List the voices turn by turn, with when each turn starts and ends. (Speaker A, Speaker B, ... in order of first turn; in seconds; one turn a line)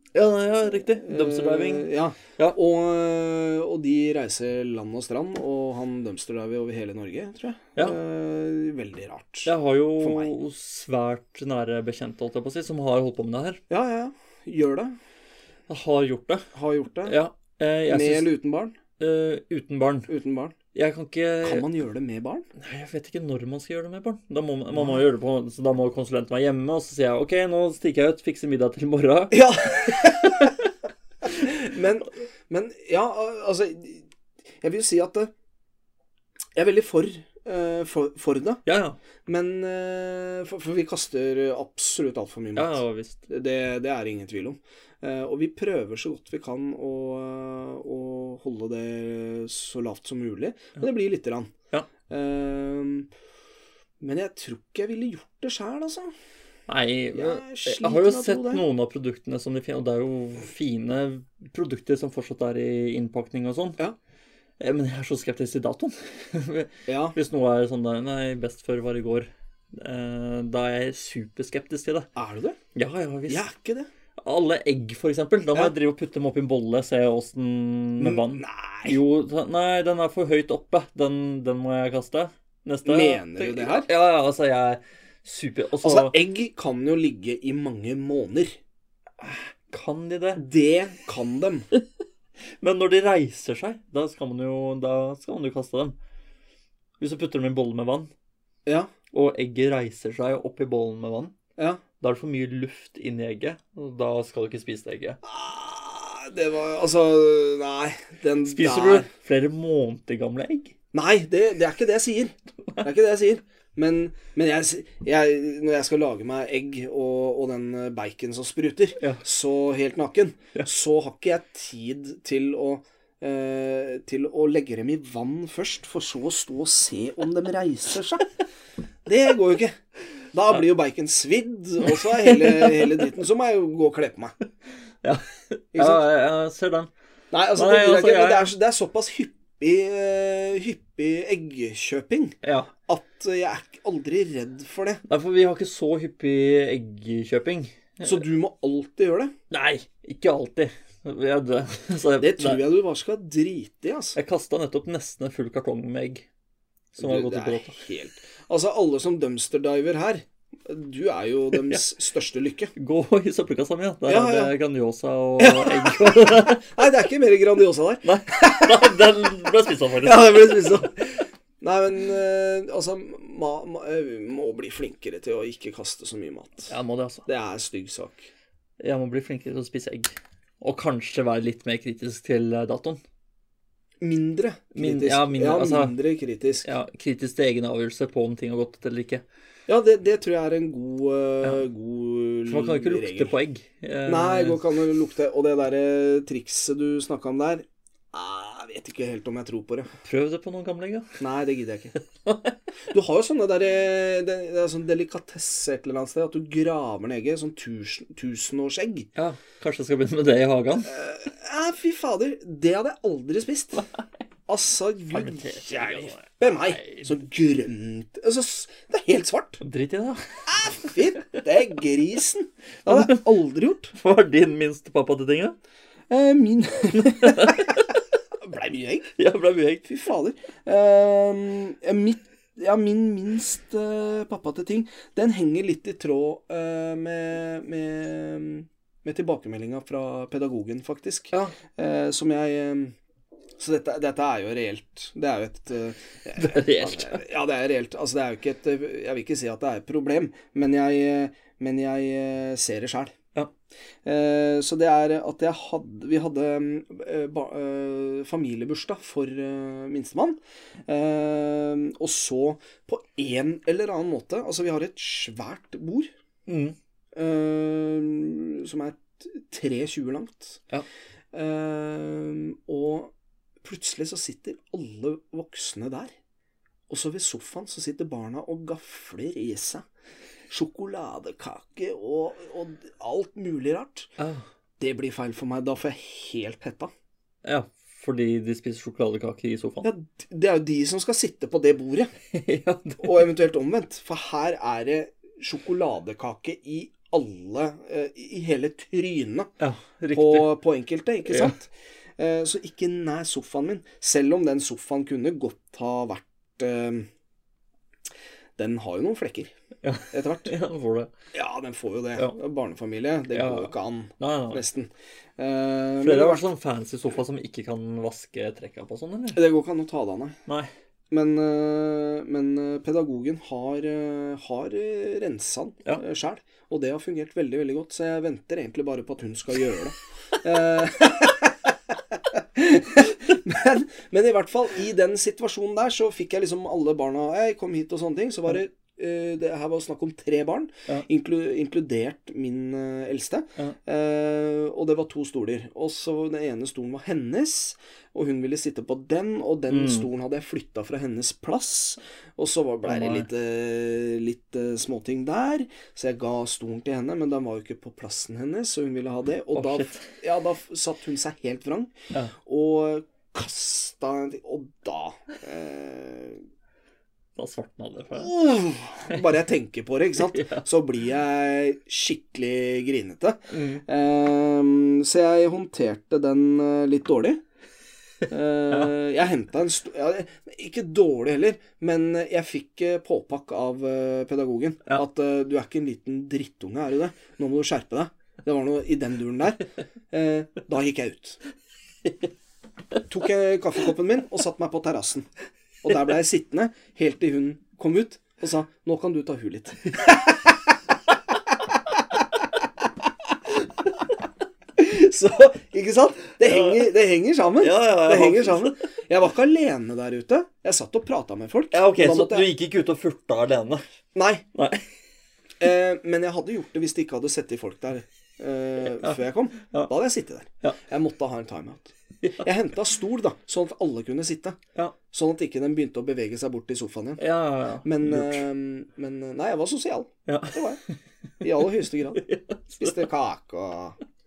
Speaker A: 0.1-2.6
Speaker B: 1.0-10.3
Speaker A: 9.4-13.6
Speaker B: 13.7-14.9
Speaker A: 15.7-16.5
Speaker B: 16.5-17.2
Speaker A: 17.1-18.3
Speaker B: 17.9-18.8
Speaker A: 19.0-20.1
Speaker B: 20.1-20.5
Speaker A: 20.7-21.6
Speaker B: 21.4-22.5
Speaker A: 22.6-30.7
Speaker B: 29.3-30.6
Speaker B: 31.2-34.1
Speaker B: 34.6-35.3
Speaker B: 36.5-38.6
Speaker A: 38.6-39.0
Speaker B: 39.2-51.5
Speaker A: 42.5-43.2
Speaker B: 52.1-53.1
Speaker B: 54.0-56.1
Speaker A: 56.7-63.8
Speaker B: 57.1-58.6
Speaker A: 64.6-72.1
Speaker B: 66.9-67.2
Speaker B: 72.2-72.6
Speaker A: 72.7-73.4
Speaker B: 73.3-73.9
Speaker A: 74.2-86.1
Speaker B: 78.0-79.0
Speaker B: 82.8-83.9
Speaker B: 85.8-88.6
Speaker A: 89.2-90.4
Speaker B: 90.3-91.7
Speaker A: 92.6-96.0
Speaker A: 97.0-98.1
Speaker A: 99.1-101.3
Speaker B: 101.6-101.8
Speaker A: 102.0-105.2
Speaker B: 105.2-109.1
Speaker A: 108.4-110.7
Speaker B: 110.9-128.3
Speaker B: 129.1-129.8
Speaker B: 130.3-134.4
Speaker A: 131.8-133.1
Speaker A: 135.0-136.9
Speaker B: 135.7-136.0
Speaker B: 137.3-145.0
Speaker A: 137.5-138.5
Speaker A: 142.4-142.7
Speaker A: 145.1-148.2
Speaker B: 148.0-149.3
Speaker A: 149.5-152.7
Speaker B: 152.2-154.2
Speaker A: 154.1-156.3
Speaker A: 156.9-157.8
Speaker B: 157.0-162.7
Speaker A: 162.8-166.7
Speaker B: 164.1-164.5
Speaker B: 165.4-169.0
Speaker A: 168.0-170.9
Speaker B: 170.0-176.7
Speaker A: 176.7-177.2
Speaker B: 177.2-178.3
Speaker A: 178.8-183.0
Speaker B: 184.0-186.7
Speaker A: 184.7-185.9
Speaker A: 186.6-189.2
Speaker B: 189.7-193.3
Speaker A: 192.4-194.6
Speaker B: 194.1-199.9
Speaker A: 200.0-201.2
Speaker B: 201.2-201.9
Speaker A: 202.2-202.6
Speaker B: 202.9-209.1
Speaker A: 209.1-210.9
Speaker B: 210.9-213.9
Speaker B: 214.5-219.6
Speaker A: 215.1-217.1
Speaker A: 219.6-221.0
Speaker B: 220.5-223.9
Speaker A: 222.8-223.2
Speaker A: 223.9-225.6
Speaker B: 226.1-227.9
Speaker A: 226.9-228.0
Speaker B: 228.4-229.1
Speaker A: 229.2-229.9
Speaker B: 229.8-242.9
Speaker B: 243.6-253.1
Speaker A: 246.3-247.2
Speaker B: 254.0-266.1
Speaker A: 266.5-266.8
Speaker B: 267.1-270.6
Speaker B: 271.3-276.1
Speaker B: 276.9-279.9
Speaker B: 280.5-284.1
Speaker A: 284.2-284.4
Speaker B: 284.8-286.9
Speaker A: 287.4-289.9
Speaker B: 289.8-292.1
Speaker A: 292.3-293.3
Speaker B: 293.0-299.5
Speaker A: 299.6-300.5
Speaker B: 300.1-307.1
Speaker A: 301.2-301.5
Speaker B: 308.6-309.5
Speaker A: 309.8-311.1
Speaker B: 310.1-310.5
Speaker B: 311.3-316.4
Speaker A: 313.3-314.6
Speaker A: 316.0-319.4
Speaker B: 319.3-320.4
Speaker B: 321.1-331.5
Speaker B: 332.1-366.4
Speaker A: 349.7-350.1
Speaker A: 352.8-353.3
Speaker A: 359.5-360.1
Speaker A: 367.4-368.3
Speaker B: 368.1-377.4
Speaker A: 370.2-370.6
Speaker A: 373.5-373.8
Speaker B: 378.3-391.4
Speaker B: 393.1-395.3
Speaker B: 395.8-400.5
Speaker B: 404.8-412.5
Speaker A: 406.4-406.9
Speaker A: 407.6-408.8
Speaker A: 411.7-413.8
Speaker B: 414.1-414.4
Speaker A: 414.5-414.9
Speaker B: 415.6-424.6
Speaker B: 425.1-427.2
Speaker A: 427.2-428.4
Speaker B: 427.8-430.8
Speaker A: 430.2-433.1
Speaker B: 431.4-432.2
Speaker B: 432.8-434.0